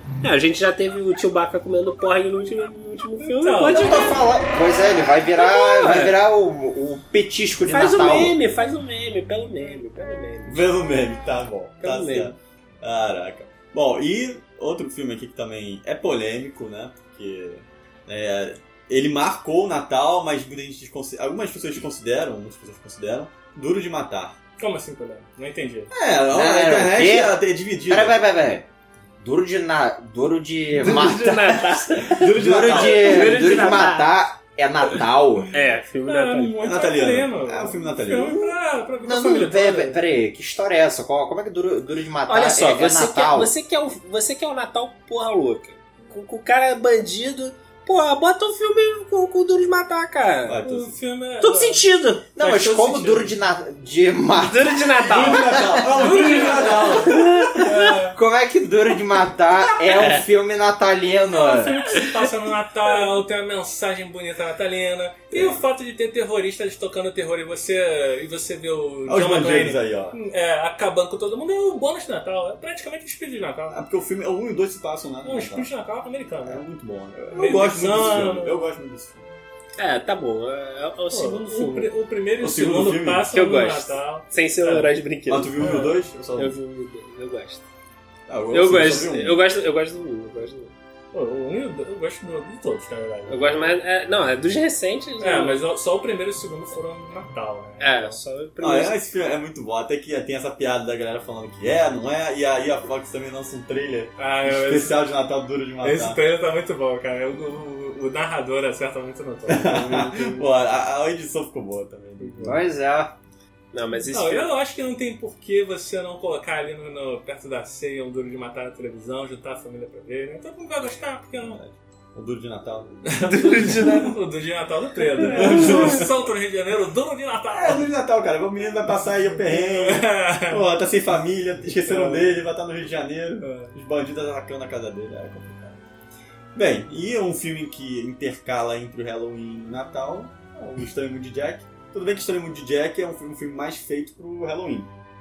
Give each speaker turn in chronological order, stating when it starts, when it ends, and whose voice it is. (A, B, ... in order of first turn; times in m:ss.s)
0:00.2-0:04.2 A
0:03.2-0:04.1 B
0:03.7-0:08.4 C
0:05.4-0:06.2 A
0:07.7-0:10.7 A
0:10.5-0:24.4 D
0:11.8-0:12.4 A
0:24.6-0:25.9 B
0:25.9-0:28.2 D
0:26.3-0:28.7 C
0:29.2-0:35.5 C
0:30.8-0:34.1 A
0:32.0-0:33.6 D
0:35.5-0:36.6 A
0:36.0-0:40.0 B
0:36.6-0:38.5 D
0:39.0-0:43.5 C
0:42.3-0:50.6 A
0:50.5-0:51.0 D
0:50.6-0:51.9 B
0:51.4-0:52.2 A
0:52.2-0:55.8 C
0:52.4-0:53.3 B
0:54.4-0:57.6 A
0:55.0-0:57.6 D
0:55.9-0:58.2 B
0:57.6-1:01.8 C
1:01.3-1:13.8 B
1:05.3-1:05.6 D
1:09.1-1:10.2 D
1:13.7-1:15.7 D
1:15.2-1:16.6 B
1:16.5-1:19.3 D
1:17.3-1:18.7 B
1:19.8-1:21.9 A
1:21.1-1:24.9 B
1:22.4-1:23.3 D
1:23.3-1:25.7 A
1:25.3-1:26.5 D
1:25.6-1:26.0 B
1:26.4-1:27.6 A
1:28.3-1:29.4 D
1:28.5-1:30.7 A
1:31.1-1:33.7 B
1:33.3-1:35.6 A
1:35.2-1:38.2 B
1:37.8-1:39.0 A
1:38.6-1:46.2 D
1:44.2-1:45.0 B
1:45.8-1:50.3 B
1:49.5-1:52.6 D
1:52.4-1:53.1 C
1:53.7-1:54.5 A
1:54.1-2:01.6 B
2:01.4-2:03.8 D
2:03.0-2:07.9 B
2:03.3-2:04.1 A
2:05.2-2:05.9 A
2:05.3-2:06.1 D
2:07.5-2:15.8 D
2:09.4-2:10.7 B
2:11.8-2:12.4 B
2:13.4-2:13.7 B
2:16.5-2:24.9 D